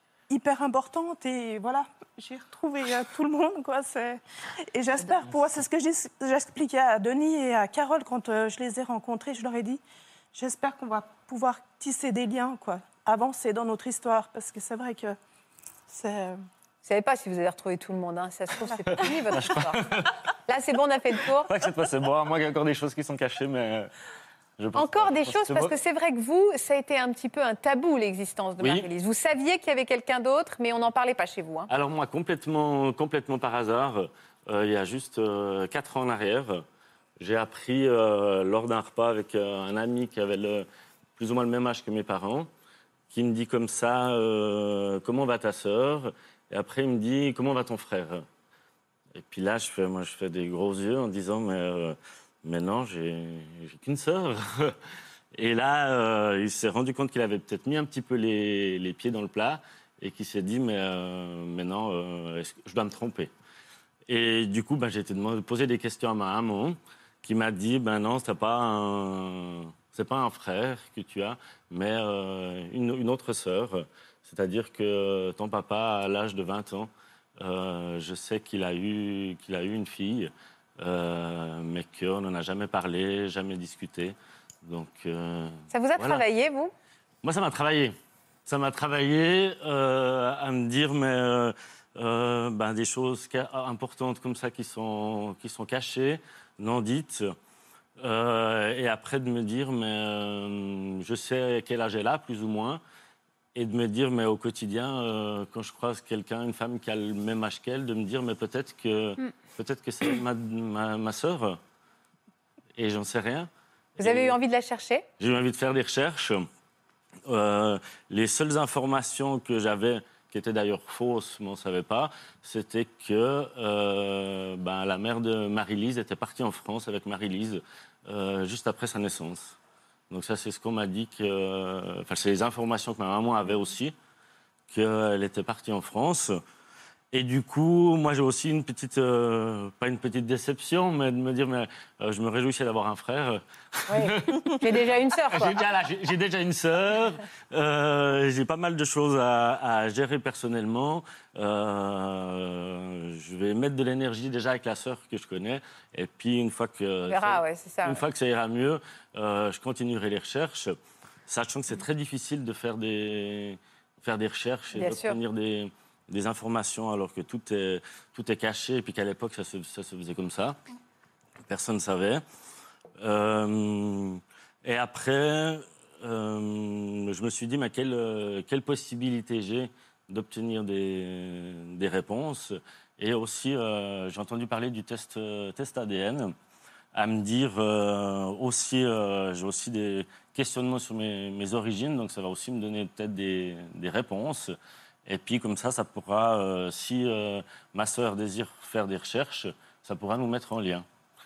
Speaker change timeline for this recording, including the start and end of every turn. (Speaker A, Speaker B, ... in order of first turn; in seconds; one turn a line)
Speaker A: 0.3-4.2
Speaker A: 4.7-9.8
Speaker A: 10.3-15.2
Speaker A: 15.9-16.4
Speaker B: 16.8-19.8
Speaker C: 19.0-20.1
Speaker B: 20.5-21.5
Speaker C: 21.5-23.9
Speaker C: 24.6-25.8
Speaker B: 24.7-31.7
Speaker C: 28.6-28.9
Speaker C: 31.7-36.6
Speaker C: 37.2-42.5
Speaker C: 43.1-48.2
Speaker C: 49.1-54.8
Speaker C: 55.3-63.3
Speaker C: 64.1-86.2
Speaker B: 85.7-86.7
Speaker C: 87.2-87.9
Speaker C: 88.5-97.3
Speaker C: 98.0-102.8
Speaker C: 103.5-111.6
Speaker C: 112.8-114.4
Speaker B: 114.0-115.1
Speaker C: 115.2-116.5
Speaker C: 117.2-129.6
Speaker C: 130.1-133.9
Speaker C: 134.7-136.4
Speaker C: 137.1-144.6
Speaker B: 143.9-145.6
Speaker C: 145.3-170.6
Speaker B: 157.1-158.0
Speaker B: 164.7-165.2
Speaker C: 171.5-172.2
Speaker C: 173.0-186.3
Speaker C: 186.9-194.5
Speaker C: 195.1-200.8